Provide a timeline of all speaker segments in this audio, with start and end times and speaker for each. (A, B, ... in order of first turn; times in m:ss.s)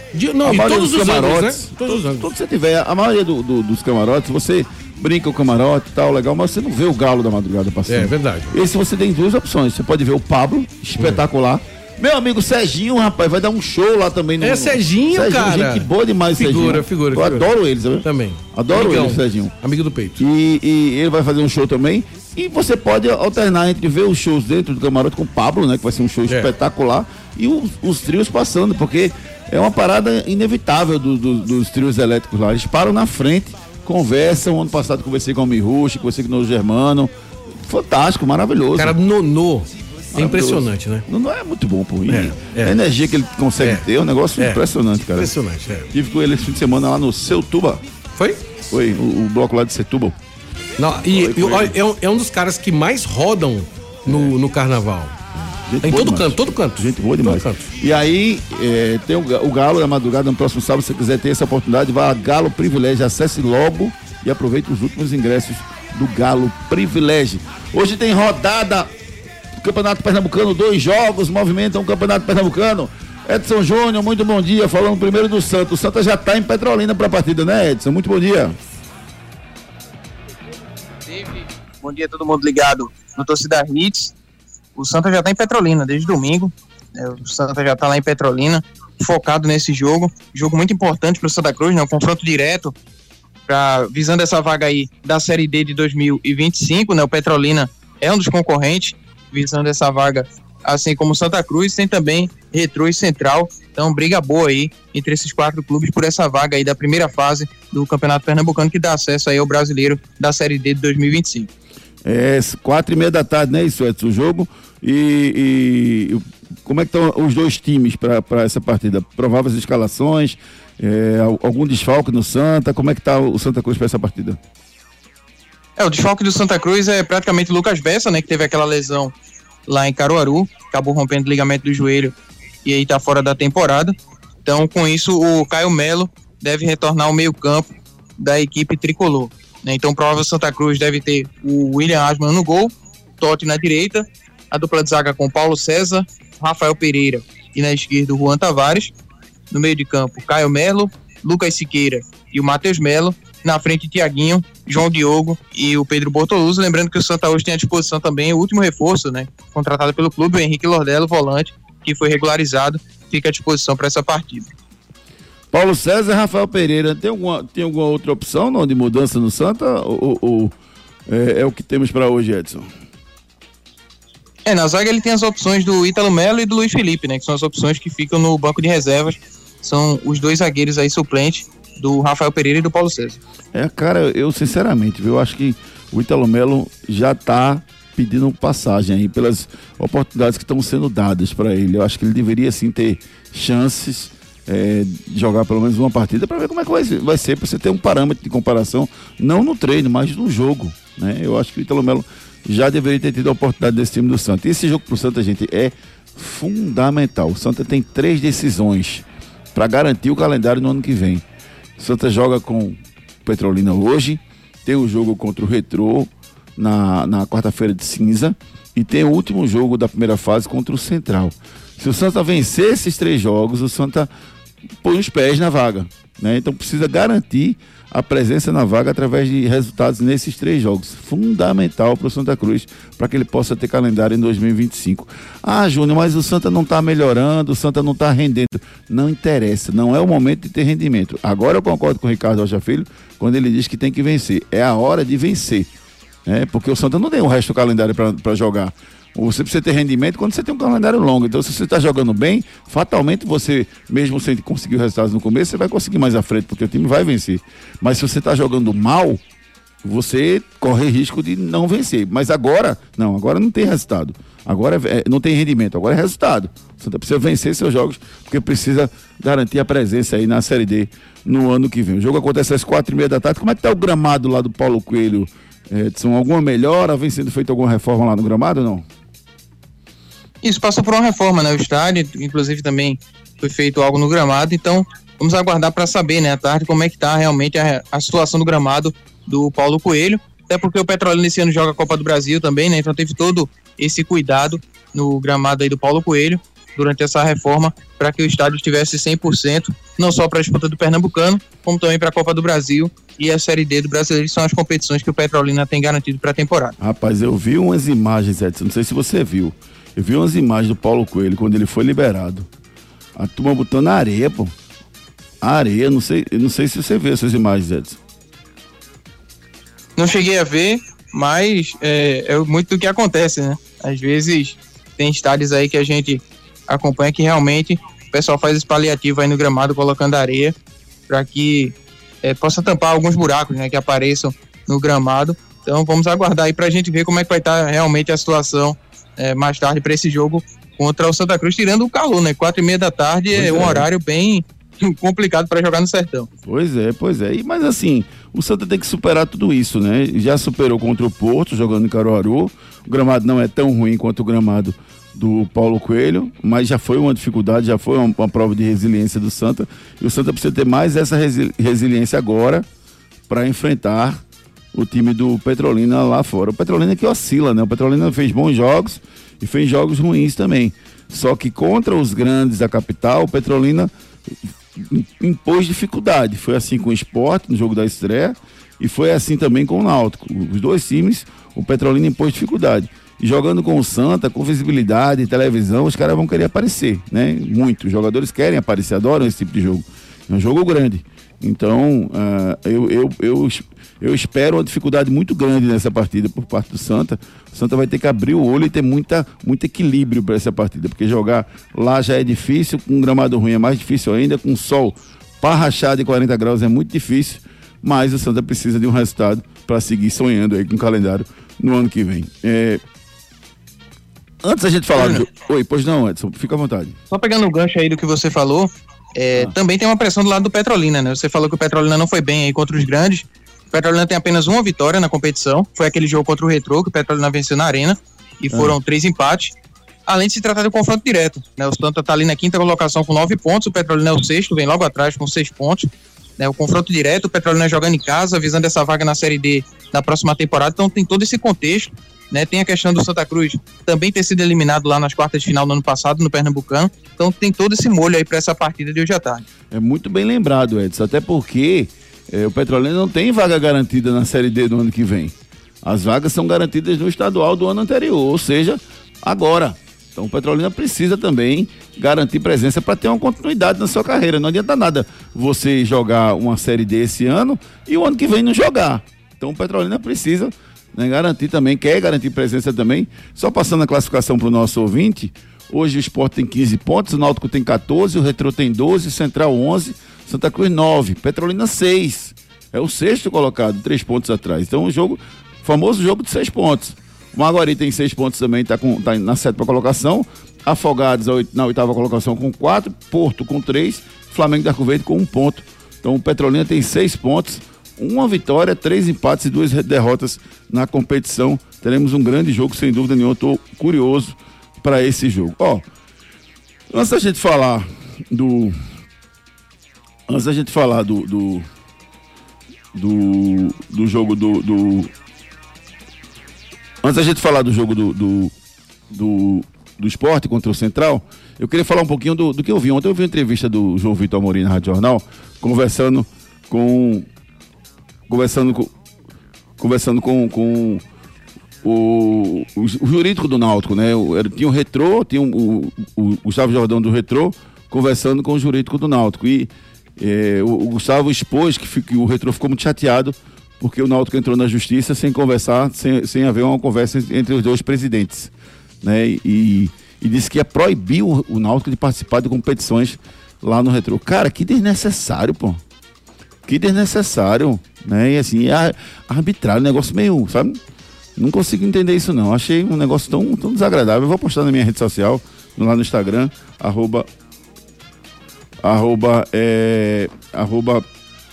0:00.1-0:02.3 A
0:00.4-0:19.5 B
0:07.9-0:08.5 A
0:14.4-0:17.5 A
0:18.0-0:20.2 A
0:20.2-0:39.0 B
0:38.8-0:41.0 A
0:40.2-0:45.4 B
0:42.1-0:42.8 A
0:45.2-0:45.9 A
0:45.9-0:47.8 B
0:48.2-0:48.5 A
0:48.7-0:50.2 B
0:50.8-0:55.1 A
0:51.1-0:51.8 B
0:54.1-0:54.3 B
0:55.7-1:08.9 B
0:55.8-0:57.7 A
1:09.6-1:18.6 B
1:21.1-1:24.1 C
1:24.8-1:32.7 C
1:33.5-1:51.5 C
1:52.0-2:04.4 B
2:05.8-2:09.1 C
2:09.7-2:12.1 C
2:12.6-2:13.9 C
2:14.4-2:28.9 C
2:29.5-2:44.5 C
2:45.5-2:50.6 B
2:51.1-2:52.7 B
2:54.4-3:03.2 C
3:03.5-3:31.2 B
3:31.8-3:44.1 B
3:44.8-4:05.7 B
4:06.3-4:19.2 B
4:19.8-4:38.9 B
4:40.4-5:06.8 C
5:06.8-5:12.5 B
5:13.2-5:14.5 B
5:15.4-5:18.0 B
5:20.0-5:30.5 C
5:31.1-5:46.3 C
5:43.3-5:43.9 B
5:46.4-6:02.7 B
6:03.3-6:04.2 B
6:04.7-6:13.9 B
6:14.8-6:52.8 B
6:54.4-6:57.0 B
6:55.0-6:55.3 C
6:57.1-7:09.5 C
7:10.1-7:29.4 C
7:29.7-8:25.8 B
8:26.9-8:28.8 B
8:30.3-8:31.7 B
8:32.9-8:35.1 B
8:37.0-8:38.5 B
8:39.1-8:47.3 B
8:48.3-8:48.9 B
8:49.8-8:51.0 B
8:51.8-9:15.8 B
9:16.7-9:20.8 B
9:21.4-9:27.3 B
9:28.8-9:31.0 B